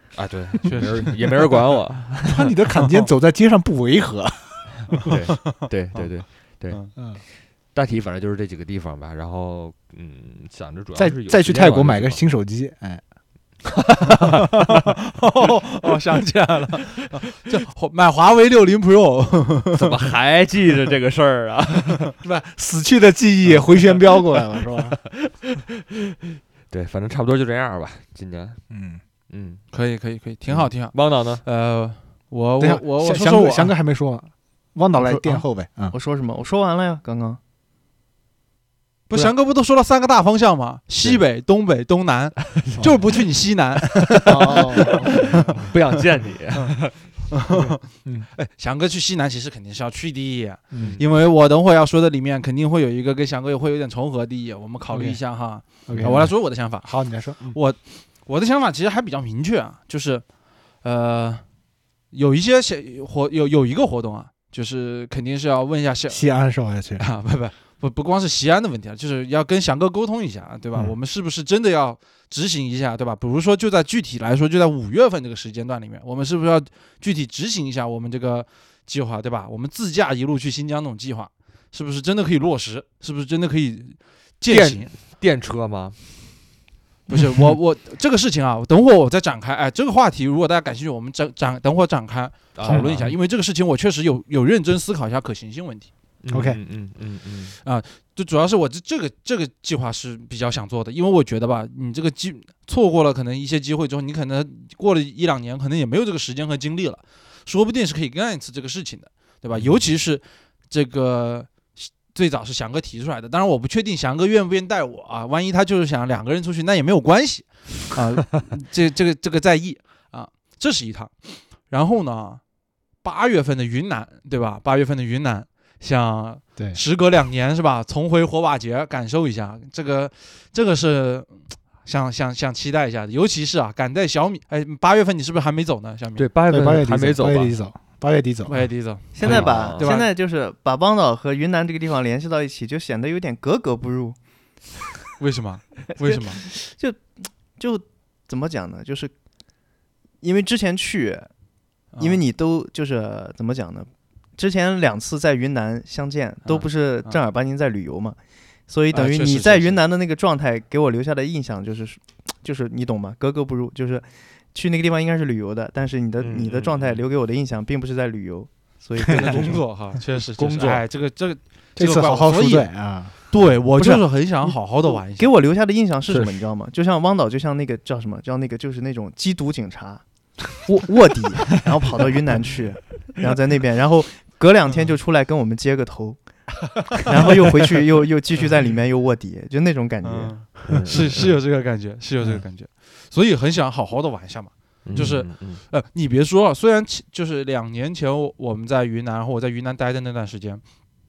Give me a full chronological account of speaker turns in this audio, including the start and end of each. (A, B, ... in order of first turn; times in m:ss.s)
0:00.1-0:02.5 A
0:00.6-0:01.6 B
0:02.3-0:04.9 C
0:02.8-0:03.1 B
0:05.0-0:12.3 A
0:05.6-0:06.1 B
0:07.0-0:07.2 C
0:11.0-0:13.0 C
0:14.2-0:20.0 B
0:19.8-0:22.1 A
0:22.2-0:25.1 C
0:26.7-0:28.8 A
0:28.7-0:29.0 C
0:29.3-0:29.7 A
0:29.7-0:33.7 B
0:30.5-0:31.4 A
0:32.6-0:35.9 C
0:35.0-0:35.4 B
0:35.9-0:37.4 D
0:39.1-0:45.5 B
0:41.0-0:41.2 A
0:42.7-0:43.0 A
0:44.3-0:45.4 C
0:44.5-0:47.5 A
0:46.6-1:24.9 B
0:48.0-0:48.3 C
0:50.7-0:51.0 C
0:50.8-0:51.0 A
0:54.9-0:57.5 C
0:55.9-0:56.3 A
1:06.1-1:07.0 C
1:24.5-1:26.3 A
1:27.1-1:35.9 B
1:27.1-1:27.5 C
1:32.5-1:33.2 A
1:32.6-1:32.9 C
1:36.2-1:37.6 A
1:36.3-1:36.6 C
1:37.6-2:16.3 B
1:49.5-1:49.8 A
2:16.2-2:17.7 A
2:16.5-2:18.9 C
2:18.5-2:20.1 B
2:19.1-2:24.6 D
2:19.2-2:19.8 A
2:25.2-2:26.4 B
2:26.0-2:50.8 D
2:31.9-2:32.2 B
2:36.5-2:37.2 B
2:38.9-2:39.8 B
2:46.2-2:47.0 A
2:49.1-2:55.3 B
2:51.8-2:53.1 C
2:53.6-3:10.6 D
2:56.1-2:56.3 A
3:10.0-3:20.7 B
3:10.7-3:11.4 A
3:14.8-3:15.7 A